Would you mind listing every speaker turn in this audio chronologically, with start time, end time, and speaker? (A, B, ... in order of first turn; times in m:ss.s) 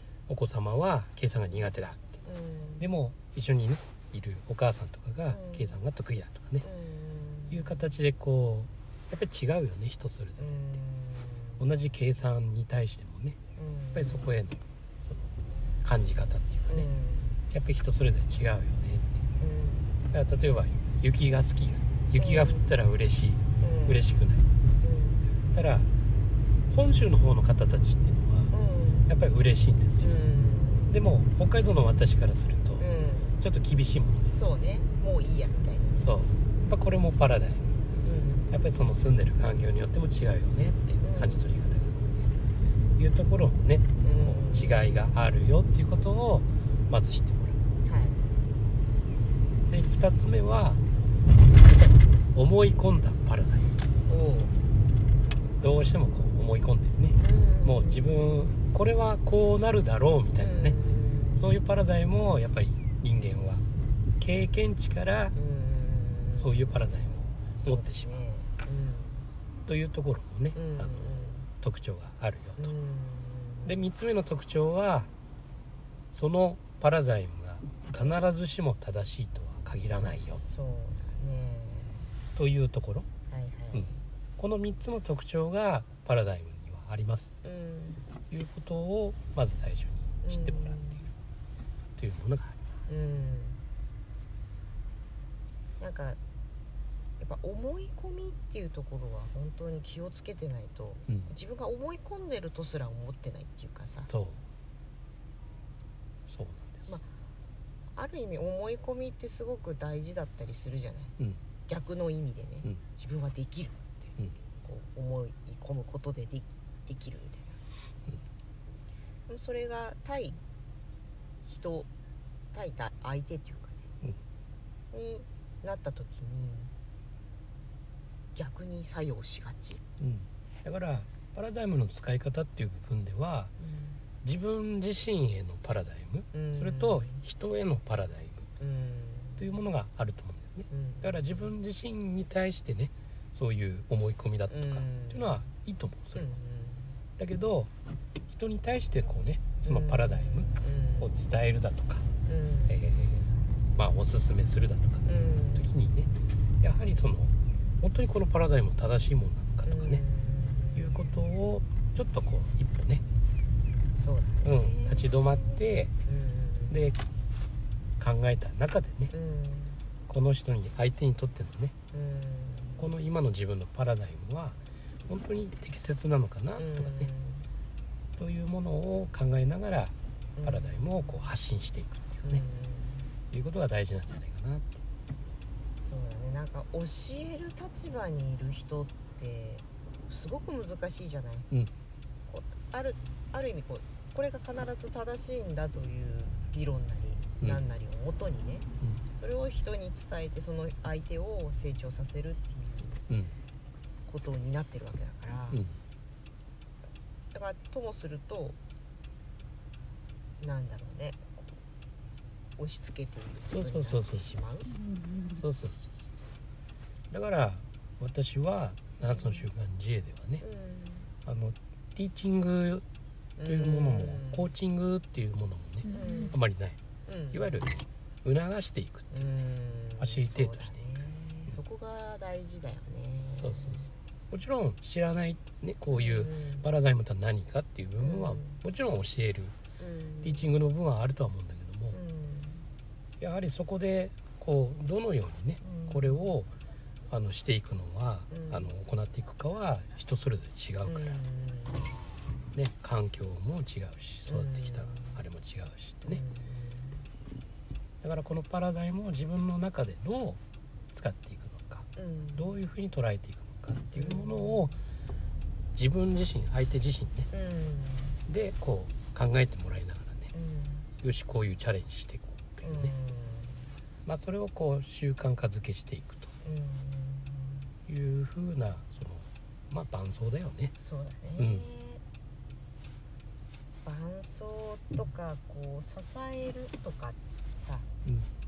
0:00.3-0:02.1 A
0:02.2-0:02.9 B
0:02.8-0:06.7 A
0:05.3-0:05.8 B
0:06.6-0:07.8 B
0:07.5-0:10.8 A
0:10.4-0:11.6 B
0:11.6-0:13.4 A
0:13.6-0:14.3 B
0:13.9-0:16.9 A
0:16.7-0:17.4 B
0:17.5-0:19.2 A
0:19.4-0:19.9 B
0:20.1-0:24.5 A
0:22.2-0:22.7 B
0:23.6-0:24.0 B
0:24.8-0:25.2 B
0:25.5-0:25.9 A
0:26.7-0:28.5 A
0:28.5-0:29.1 B
0:29.1-0:30.2 A
0:30.0-0:30.9 B
0:30.9-0:32.8 A
0:32.8-0:33.4 B
0:33.4-0:34.4 A
0:34.3-0:36.1 B
0:36.0-0:37.8 A
0:38.0-0:38.5 B
0:38.5-0:42.3 A
0:41.0-0:41.4 B
0:43.0-0:47.6 A
0:44.0-0:45.1 B
0:47.8-0:48.4 B
0:49.7-0:50.8 A
0:52.3-0:53.7 A
0:54.1-0:54.5 B
0:55.6-1:00.8 A
0:57.2-0:58.1 B
1:00.4-1:01.5 B
1:01.4-1:03.6 A
1:04.2-1:05.3 A
1:05.3-1:09.2 B
1:06.3-1:08.2 A
1:09.6-1:12.7 A
1:10.6-1:11.4 B
1:12.6-1:13.8 B
1:13.6-1:15.1 A
1:16.1-1:20.4 A
1:20.4-1:22.1 B
1:22.4-1:23.1 A
1:23.3-1:24.0 B
1:23.8-1:27.4 A
1:27.4-1:28.0 B
1:28.3-1:31.1 A
1:30.2-1:31.1 B
1:32.0-1:32.6 A
1:32.9-1:33.6 B
1:35.8-1:36.2 B
1:37.2-1:44.1 B
1:44.1-1:44.4 A
1:46.3-1:47.0 A
1:47.9-1:51.1 B
1:51.7-1:54.0 B
1:54.6-1:57.6 B
1:59.3-2:00.4 B
2:01.4-2:01.9 B
2:02.5-2:03.8 B
2:04.9-2:06.7 B
2:08.3-2:09.8 B
2:10.0-2:13.5 A
2:13.6-2:14.0 B
2:14.2-2:18.5 A
2:16.3-2:17.2 B
2:18.6-2:19.5 B
2:19.4-2:26.4 A
2:20.7-2:21.5 B
2:24.5-2:25.4 B
2:26.2-2:27.0 B
2:27.2-2:27.7 A
2:28.3-2:32.1 A
2:29.6-2:31.1 B
2:32.2-2:32.8 B
2:32.7-2:40.0 A
2:35.0-2:35.8 B
2:39.7-2:41.1 B
2:40.8-2:43.0 A
2:43.9-2:46.8 B
2:44.4-2:45.9 A
2:46.7-2:47.0 A
2:48.0-2:49.1 A
2:49.1-2:49.8 B
2:50.1-2:51.7 A
2:51.9-2:52.9 B
2:52.8-2:57.1 A
2:56.6-2:57.5 B
2:58.2-3:02.4 A
3:00.4-3:01.2 B
3:02.2-3:03.1 B
3:03.3-3:04.8 A
3:05.8-3:11.5 B
3:12.3-3:18.6 B
3:19.2-3:23.0 B
3:23.1-3:23.3 A
3:24.1-3:25.6 B
3:27.3-3:28.6 B
3:30.4-3:31.6 B
3:32.6-3:34.8 B
3:33.4-3:34.5 A
3:35.3-3:36.2 A
3:37.1-3:40.4 A
3:40.4-3:41.1 B
3:41.2-3:42.8 A
3:43.4-3:44.5 B
3:43.4-3:46.8 A
3:45.9-3:46.4 B
3:47.1-3:47.6 B
3:47.3-3:47.7 A
3:48.2-3:49.4 A
3:49.1-3:53.9 B
3:50.0-3:51.6 A
3:53.2-3:59.6 A
3:55.9-3:56.7 B
3:58.0-3:58.6 B
3:59.8-4:00.5 B
4:00.2-4:02.0 A
4:01.9-4:02.6 B
4:03.2-4:06.5 A
4:05.6-4:06.3 B
4:07.1-4:11.2 A
4:08.3-4:08.7 B
4:10.8-4:12.0 B
4:12.5-4:16.2 A
4:14.3-4:15.2 B
4:16.1-4:17.0 B
4:18.0-4:20.4 A
4:20.9-4:24.8 A
4:22.0-4:22.6 B
4:23.9-4:24.6 B
4:25.8-4:27.3 A
4:27.3-4:28.2 B
4:28.3-4:30.3 A
4:30.3-4:30.9 B
4:31.0-4:32.9 A
4:32.6-4:33.7 B
4:34.0-4:36.3 A
4:36.4-4:37.7 B
4:37.9-4:40.7 A
4:40.8-4:42.0 B
4:41.4-4:41.6 A
4:43.8-4:47.9 B